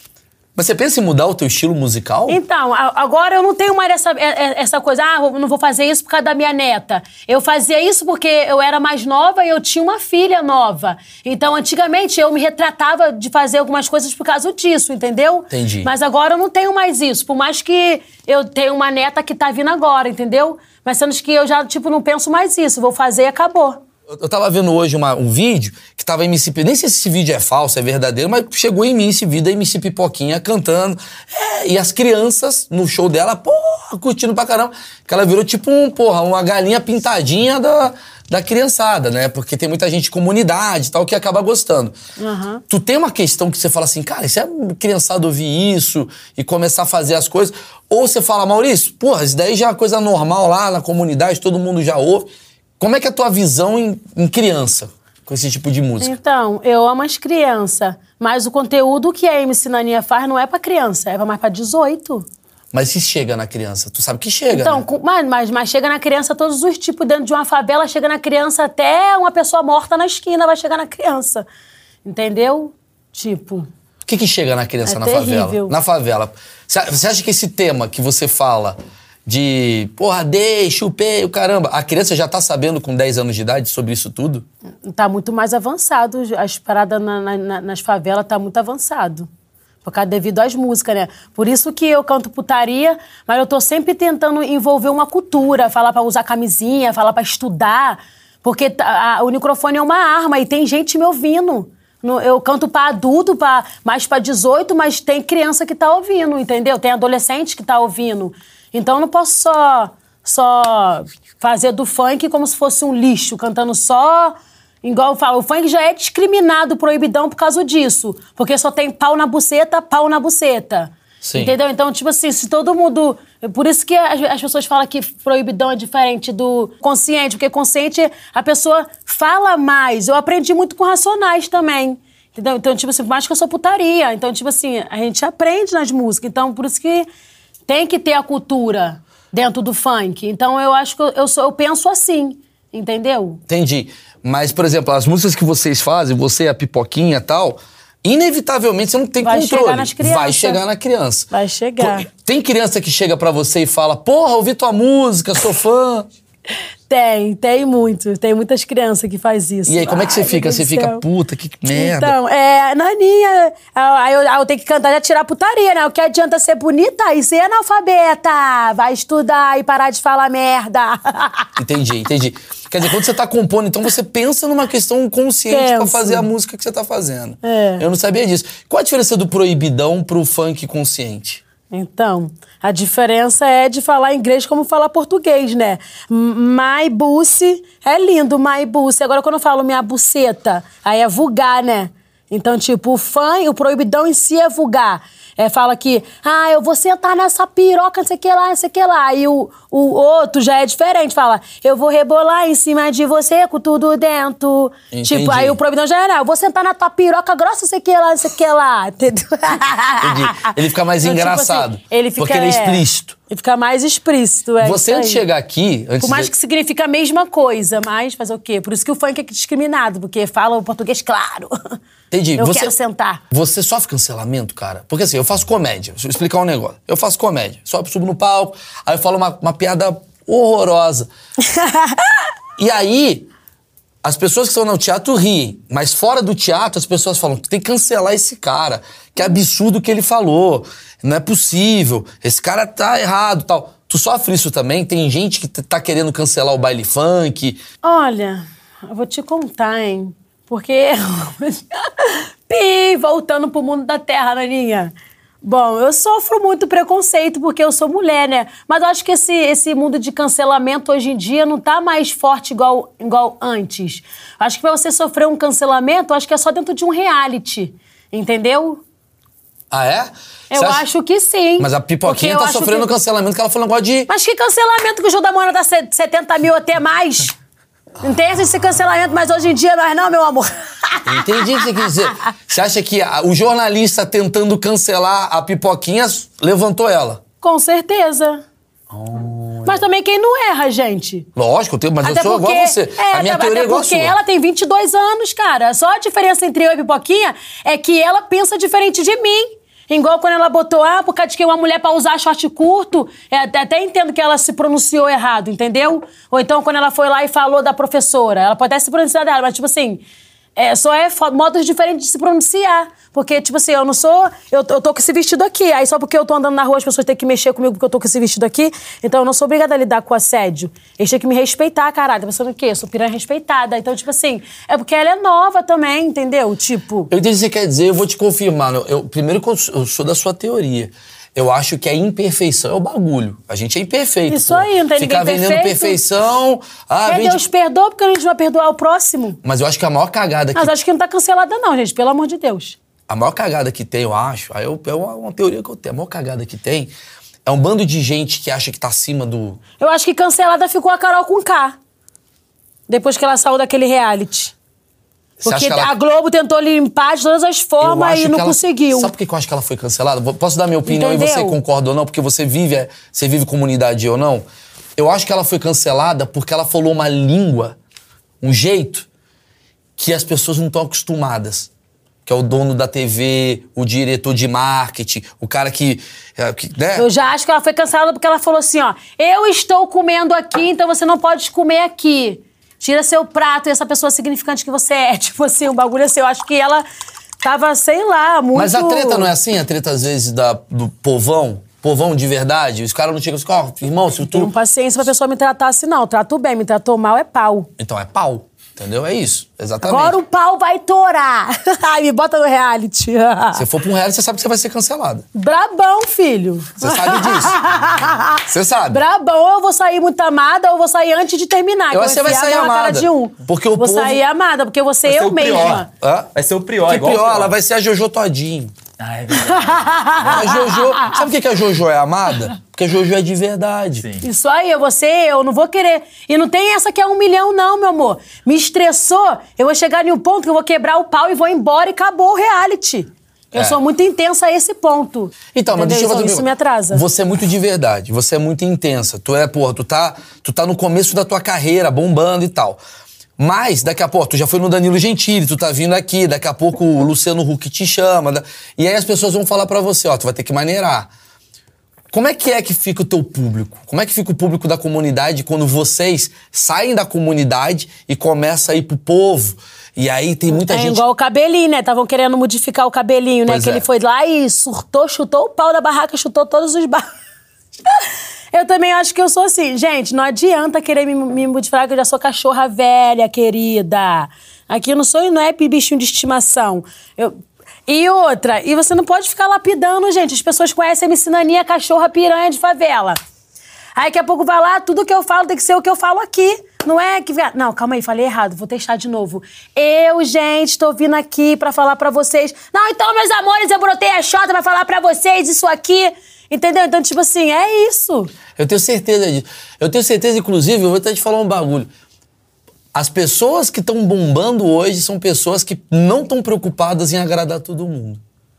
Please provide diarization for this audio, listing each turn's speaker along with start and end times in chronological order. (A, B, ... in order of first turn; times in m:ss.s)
0:00.6-0:02.4 A
0:02.3-0:23.8 B
0:15.5-0:15.9 A
0:24.1-0:42.0 A
0:42.2-0:42.6 B
0:42.7-0:56.2 A
0:56.0-1:02.3 B
1:02.7-1:04.8 A
1:04.5-1:11.5 B
1:12.0-1:13.7 B
1:14.1-1:24.4 A
1:14.8-1:15.7 B
1:24.8-1:29.3 B
1:29.8-2:17.1 B
2:01.2-2:01.5 A
2:17.7-2:23.4 B
2:23.5-2:36.1 A
2:29.2-2:30.6 B
2:31.3-2:32.1 B
2:36.9-2:41.0 B
2:39.7-2:42.2 A
2:41.7-2:51.5 B
2:51.6-3:01.4 A
2:55.5-2:56.3 B
2:57.4-2:57.8 B
3:01.7-3:35.2 B
3:24.9-3:25.6 A
3:30.0-3:33.2 A
3:34.6-3:36.3 A
3:36.0-3:41.8 B
3:42.1-3:42.7 A
3:42.4-3:43.2 B
3:43.3-3:51.1 A
3:51.4-3:52.2 B
3:52.6-3:53.3 A
3:54.0-4:07.6 A
4:07.8-4:28.8 B
4:29.7-4:30.8 A
4:30.5-4:32.9 B
4:31.6-4:34.1 A
4:34.1-4:37.3 B
4:38.0-4:42.3 B
4:41.0-4:47.2 A
4:47.4-4:48.4 B
4:48.9-4:49.8 A
4:49.6-4:51.3 B
4:51.4-4:54.2 A
4:52.0-5:10.0 B
5:10.6-5:27.1 B
5:27.1-5:37.4 A
5:34.3-5:36.0 B
5:37.1-5:39.4 B
5:39.4-5:40.7 A
5:40.6-5:42.8 B
5:43.1-5:46.9 A
5:47.4-5:49.6 A
5:49.8-5:51.8 B
5:52.9-5:54.5 B
5:55.4-5:59.1 B
5:55.4-5:55.9 A
5:57.8-6:04.4 A
6:00.9-6:01.6 B
6:05.0-6:07.8 A
6:08.4-6:09.1 A
6:10.0-6:11.7 A
6:12.3-6:17.1 A
6:17.0-6:26.8 B
6:27.4-6:29.3 B
6:28.5-6:34.5 A
6:34.3-6:37.7 B
6:37.8-6:40.2 A
6:39.8-6:43.6 B
6:43.5-6:45.2 A
6:45.4-6:55.9 B
6:46.8-6:47.6 A
6:48.4-6:49.0 A
6:51.9-6:54.2 A
6:55.0-6:57.5 C
6:56.0-6:56.3 A
6:56.8-6:58.7 A
6:59.0-7:00.5 C
6:59.4-7:01.2 B
7:00.2-7:04.0 A
7:04.0-7:04.3 C
7:04.2-7:17.0 B
7:15.5-7:22.8 A
7:23.4-7:31.1 A
7:32.1-7:41.0 A
7:40.5-7:47.1 B
7:43.5-7:43.8 A
7:47.9-8:03.2 B
8:04.0-8:18.3 B
8:18.6-8:21.9 A
8:22.9-8:28.2 A